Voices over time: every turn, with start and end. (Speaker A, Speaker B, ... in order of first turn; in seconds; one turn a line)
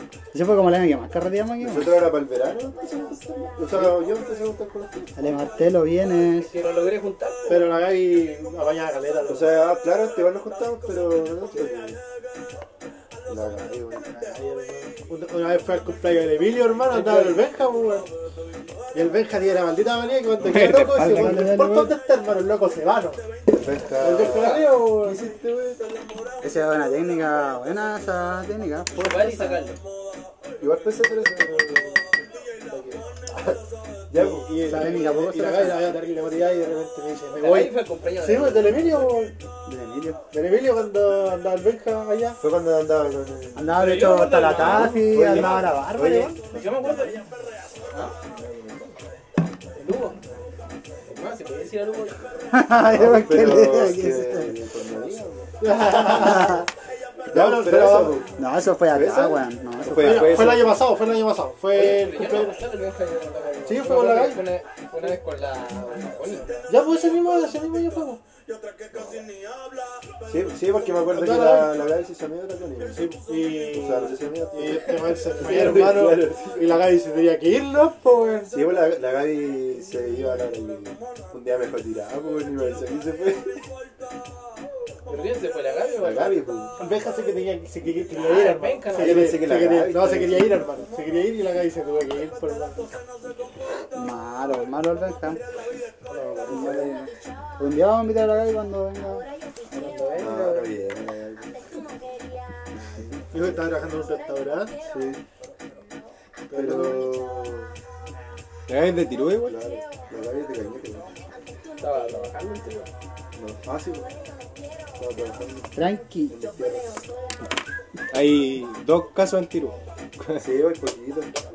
Speaker A: 0.3-2.1
Speaker B: 1.6-5.3
Speaker C: 3.7-4.0
Speaker A: 5.2-6.5
Speaker D: 6.4-7.8
Speaker C: 7.5-9.7
Speaker B: 9.3-12.0
Speaker B: 13.3-14.4
Speaker D: 14.6-14.9
Speaker C: 15.0-18.1
Speaker D: 16.9-17.4
Speaker C: 18.9-23.2
Speaker E: 20.4-21.9
Speaker A: 21.0-21.9
Speaker B: 23.5-25.9
Speaker C: 24.0-25.2
Speaker A: 26.4-29.6
Speaker D: 28.9-29.8
Speaker B: 30.6-32.0
Speaker C: 32.7-33.0
Speaker B: 33.3-33.6
Speaker B: 34.1-34.6
Speaker C: 34.1-39.3
Speaker A: 34.6-36.0
Speaker D: 37.4-38.9
Speaker A: 38.7-39.0
Speaker A: 39.7-40.2
Speaker C: 40.3-42.4
Speaker B: 42.4-46.4
Speaker A: 43.5-46.4
Speaker D: 43.7-45.1
Speaker C: 45.2-45.6
Speaker D: 46.5-47.2
Speaker D: 47.9-48.2
Speaker B: 48.3-48.9
Speaker D: 49.8-50.2
Speaker D: 51.0-52.3
Speaker A: 52.5-54.6
Speaker B: 52.8-55.5
Speaker C: 55.6-56.7
Speaker A: 56.1-56.6
Speaker B: 57.3-58.3
Speaker C: 57.3-58.2
Speaker A: 58.4-60.5
Speaker B: 58.9-60.8
Speaker C: 60.0-62.6
Speaker D: 61.7-66.5
Speaker C: 63.6-64.5
Speaker C: 66.7-68.2
Speaker D: 68.9-69.3
Speaker B: 70.3-73.1
Speaker C: 71.1-71.8
Speaker C: 72.9-78.6
Speaker B: 73.6-76.8
Speaker B: 78.5-83.6
Speaker D: 85.1-86.5
Speaker B: 86.0-86.8
Speaker C: 86.8-92.9
Speaker D: 88.2-89.3
Speaker B: 88.9-90.7
Speaker A: 93.9-95.4
Speaker C: 96.1-96.9
Speaker A: 96.5-100.1
Speaker D: 99.7-100.7
Speaker B: 100.2-101.5
Speaker C: 103.3-104.7
Speaker B: 104.9-105.2
Speaker C: 106.5-107.1
Speaker B: 106.5-107.7
Speaker E: 108.7-109.6
Speaker B: 109.5-111.2
Speaker D: 111.8-112.9
Speaker B: 113.4-114.1
Speaker B: 115.0-117.0
Speaker A: 115.8-116.3
Speaker E: 118.1-120.5
Speaker B: 120.4-121.3